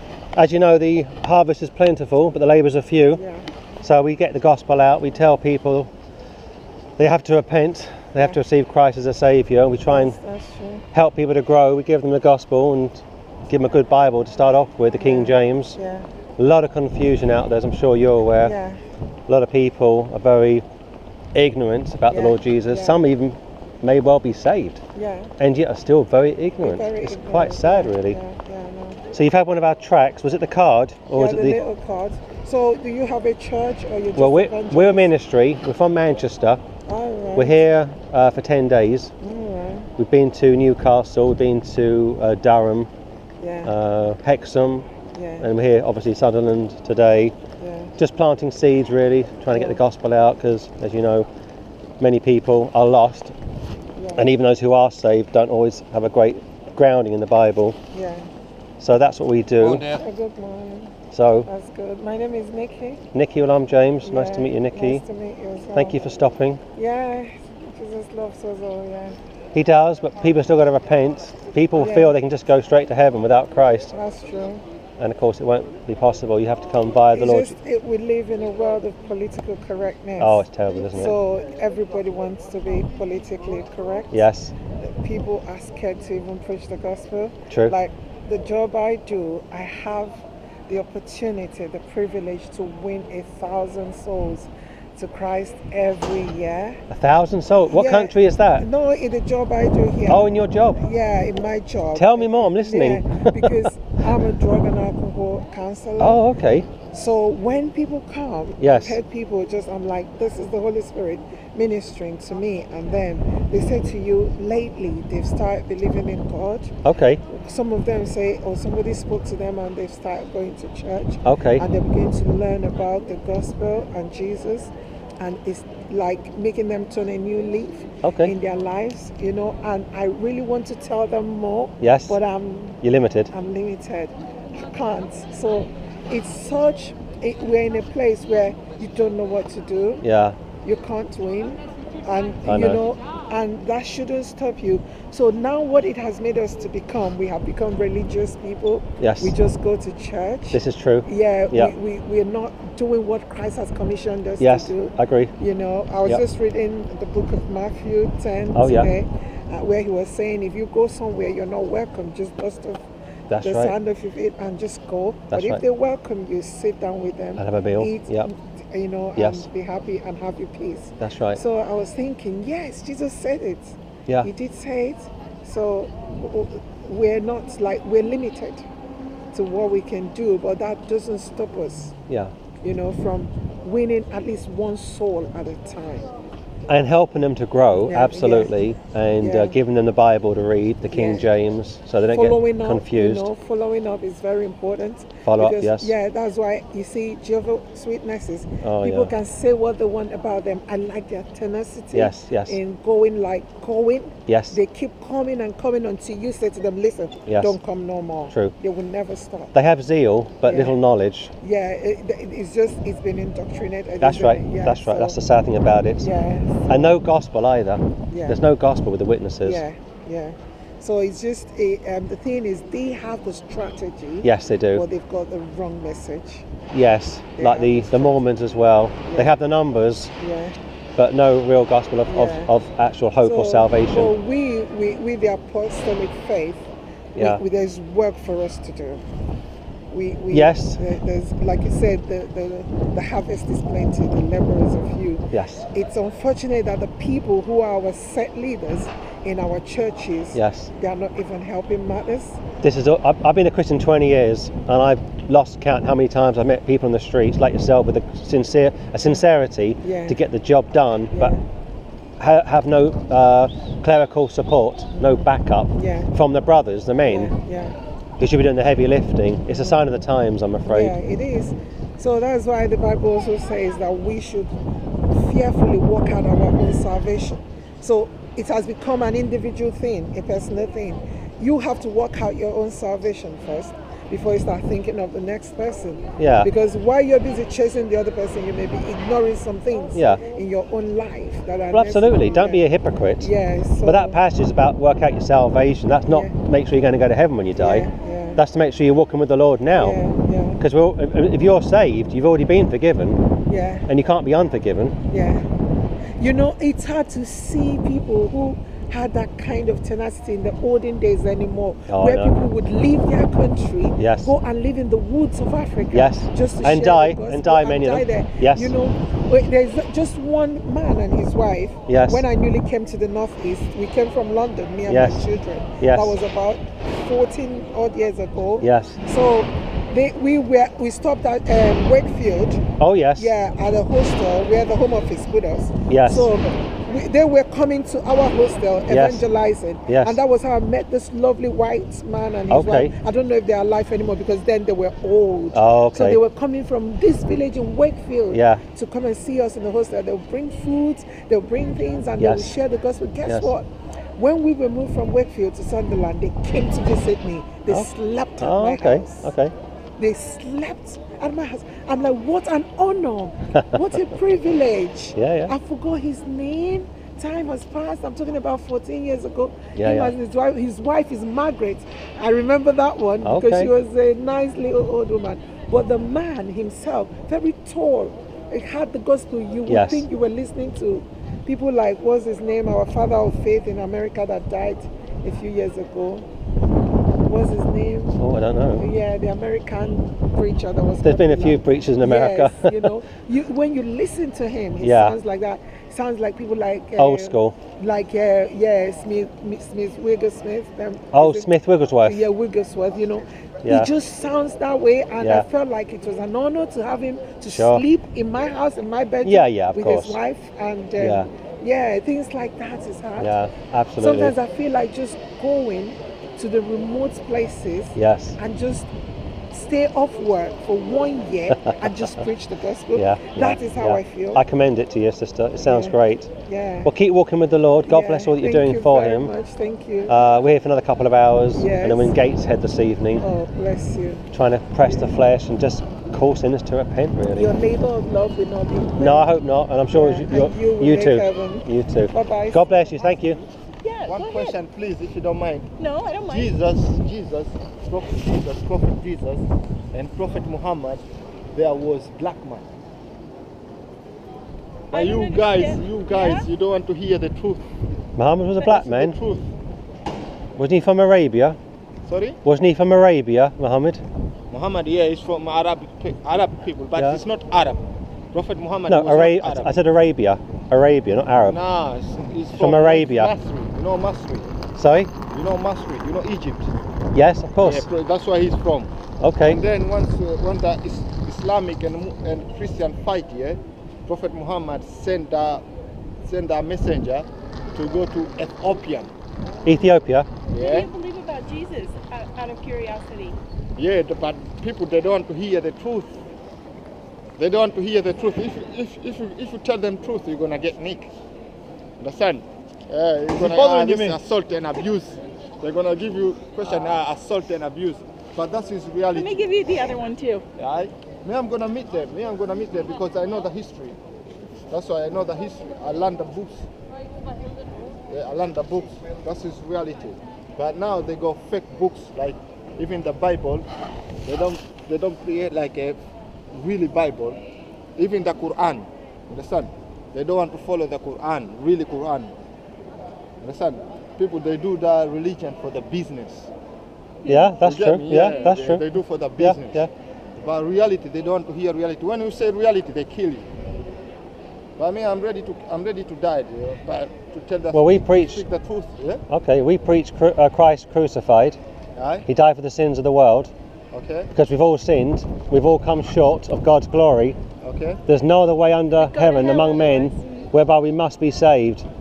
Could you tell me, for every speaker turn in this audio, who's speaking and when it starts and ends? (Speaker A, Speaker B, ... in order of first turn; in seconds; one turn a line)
Speaker A: 0.3-3.2
Speaker B: 3.1-3.4
Speaker A: 3.8-5.9
Speaker A: 7.0-10.2
Speaker B: 8.2-8.4
Speaker B: 9.9-10.8
Speaker A: 10.9-15.8
Speaker B: 15.0-16.1
Speaker A: 16.4-18.5
Speaker B: 18.4-18.8
Speaker A: 19.3-20.6
Speaker A: 21.3-24.8
Speaker B: 22.1-23.0
Speaker B: 24.9-25.3
Speaker A: 25.4-28.2
Speaker B: 26.6-29.0
Speaker A: 29.1-31.6
Speaker B: 31.1-35.1
Speaker A: 34.1-36.6
Speaker B: 36.9-37.6
Speaker A: 37.4-39.1
Speaker B: 39.2-39.9
Speaker A: 40.0-42.9
Speaker B: 43.4-43.7
Speaker A: 43.6-44.9
Speaker B: 45.1-45.5
Speaker A: 45.4-47.3
Speaker B: 47.6-47.9
Speaker A: 48.0-51.3
Speaker B: 49.5-49.8
Speaker A: 52.0-53.3
Speaker B: 54.0-54.3
Speaker A: 54.1-57.8
Speaker B: 57.9-58.3
Speaker A: 58.8-60.0
Speaker B: 59.8-60.9
Speaker A: 61.1-61.5
Speaker B: 61.5-63.0
Speaker A: 63.1-65.0
Speaker B: 64.0-66.0
Speaker A: 65.7-66.6
Speaker B: 66.7-69.2
Speaker A: 69.5-73.9
Speaker B: 71.8-72.1
Speaker B: 73.9-74.6
Speaker A: 75.0-77.5
Speaker B: 77.1-96.8
Speaker A: 80.2-81.2
Speaker A: 84.1-84.5
Speaker A: 87.5-87.8
Speaker A: 96.9-98.7
Speaker B: 97.7-106.2
Speaker A: 100.1-100.8
Speaker A: 101.9-103.7
Speaker A: 106.0-106.7
Speaker B: 106.7-116.7
Speaker A: 108.6-109.0
Speaker A: 116.8-117.2
Speaker B: 117.3-132.8
Speaker A: 121.2-121.7
Speaker A: 128.0-128.3
Speaker A: 131.8-132.2
Speaker A: 132.8-133.3
Speaker B: 133.3-140.0
Speaker A: 140.0-140.3
Speaker B: 140.6-178.7
Speaker A: 142.4-142.8
Speaker A: 149.0-149.3
Speaker A: 150.5-151.7
Speaker A: 154.4-155.3
Speaker A: 158.5-158.9
Speaker A: 163.3-163.7
Speaker A: 165.3-165.6
Speaker A: 167.4-168.3
Speaker A: 169.2-169.5
Speaker A: 171.0-171.4
Speaker B: 179.3-181.9
Speaker B: 182.6-186.1
Speaker A: 186.7-193.3
Speaker B: 187.7-188.6
Speaker B: 189.2-189.6
Speaker B: 190.9-191.3
Speaker B: 192.1-209.5
Speaker A: 195.2-195.9
Speaker A: 198.6-199.1
Speaker A: 201.9-202.6
Speaker A: 204.3-204.6
Speaker A: 207.3-207.6
Speaker A: 209.5-211.3
Speaker B: 210.4-210.7
Speaker B: 211.4-215.2
Speaker A: 214.0-216.1
Speaker B: 216.0-216.7
Speaker A: 216.7-219.6
Speaker B: 218.1-218.4
Speaker B: 219.4-226.5
Speaker A: 224.2-224.8
Speaker A: 226.7-230.1
Speaker B: 227.4-228.2
Speaker B: 229.1-229.3
Speaker B: 230.2-230.6
Speaker A: 231.0-234.1
Speaker B: 232.1-232.5
Speaker B: 233.2-239.0
Speaker A: 237.2-237.4
Speaker B: 239.9-252.4
Speaker A: 240.3-240.8
Speaker A: 245.3-245.7
Speaker A: 250.3-250.7
Speaker A: 252.6-261.3
Speaker B: 259.8-260.2
Speaker B: 261.1-261.4
Speaker A: 262.2-267.3
Speaker B: 264.9-266.1
Speaker B: 267.1-267.8
Speaker A: 268.2-271.0
Speaker B: 270.6-274.5
Speaker B: 275.1-292.6
Speaker A: 286.2-286.5
Speaker A: 289.9-290.2
Speaker A: 291.7-293.3
Speaker B: 293.2-294.2
Speaker A: 293.8-300.0
Speaker B: 296.1-296.3
Speaker B: 297.6-298.4
Speaker B: 299.8-300.6
Speaker A: 300.6-303.2
Speaker B: 303.4-303.9
Speaker A: 303.9-304.9
Speaker B: 305.1-305.4
Speaker B: 306.2-332.6
Speaker A: 311.9-312.4
Speaker A: 314.0-314.3
Speaker A: 315.9-318.7
Speaker A: 321.9-322.2
Speaker A: 324.9-325.3
Speaker A: 325.8-326.1
Speaker A: 328.6-329.0
Speaker A: 332.8-333.3
Speaker B: 333.1-359.3
Speaker A: 335.9-336.3
Speaker A: 338.9-339.2
Speaker A: 339.9-340.2
Speaker A: 342.5-342.9
Speaker A: 345.5-346.2
Speaker A: 348.3-348.6
Speaker A: 352.2-352.6
Speaker A: 353.2-353.5
Speaker A: 358.4-359.5
Speaker B: 360.0-386.3
Speaker A: 365.1-365.5
Speaker A: 369.8-370.1
Speaker A: 373.2-373.7
Speaker A: 379.7-380.0
Speaker B: 387.2-388.2
Speaker A: 388.2-388.8
Speaker B: 388.8-401.5
Speaker A: 391.0-392.9
Speaker A: 394.8-395.2
Speaker A: 397.0-397.6
Speaker A: 401.1-402.3
Speaker B: 402.0-413.4
Speaker A: 403.6-403.9
Speaker A: 405.2-405.5
Speaker A: 407.4-407.8
Speaker A: 409.2-410.2
Speaker A: 411.0-411.3
Speaker A: 413.2-414.3
Speaker B: 414.0-418.9
Speaker A: 417.9-418.4
Speaker B: 419.5-424.4
Speaker A: 421.8-422.2
Speaker A: 422.9-426.3
Speaker B: 425.6-425.9
Speaker B: 426.5-426.9
Speaker A: 426.8-429.3
Speaker B: 427.8-430.1
Speaker A: 430.1-433.2
Speaker B: 431.5-432.2
Speaker B: 433.2-434.3
Speaker A: 434.3-437.5
Speaker B: 437.3-439.3
Speaker A: 439.0-443.4
Speaker B: 439.9-443.4
Speaker C: 443.8-444.6
Speaker D: 444.1-445.7
Speaker C: 445.8-446.5
Speaker D: 446.3-452.6
Speaker C: 454.9-456.5
Speaker D: 454.9-457.7
Speaker A: 458.2-459.2
Speaker D: 458.6-459.5
Speaker A: 460.6-461.6
Speaker D: 462.1-462.4
Speaker A: 462.4-464.0
Speaker D: 464.5-469.8
Speaker A: 466.9-467.2
Speaker A: 468.9-471.6
Speaker D: 471.5-474.5
Speaker A: 472.5-473.3
Speaker A: 474.8-475.1
Speaker D: 475.3-476.7
Speaker A: 477.1-477.9
Speaker D: 477.6-478.9
Speaker A: 479.2-479.6
Speaker D: 479.4-485.6
Speaker D: 486.2-489.1
Speaker A: 489.6-490.3
Speaker D: 490.5-490.9
Speaker C: 490.5-493.4
Speaker D: 493.8-496.2
Speaker D: 497.4-501.1
Speaker D: 502.0-509.6
Speaker A: 503.4-504.2
Speaker C: 509.1-510.4
Speaker D: 510.6-514.0
Speaker D: 514.7-516.7
Speaker D: 518.1-523.6
Speaker D: 524.2-526.0
Speaker D: 526.5-527.4
Speaker D: 528.0-532.3
Speaker D: 533.4-536.5
Speaker C: 537.2-537.5
Speaker A: 537.2-538.8
Speaker D: 537.6-539.8
Speaker A: 539.4-539.9
Speaker D: 540.4-543.5
Speaker D: 544.8-549.2
Speaker A: 547.7-548.4
Speaker A: 549.3-551.6
Speaker D: 552.0-552.3
Speaker A: 552.3-553.5
Speaker D: 553.9-554.3
Speaker A: 554.3-557.4
Speaker D: 557.6-558.0
Speaker A: 558.1-561.9
Speaker C: 559.0-560.5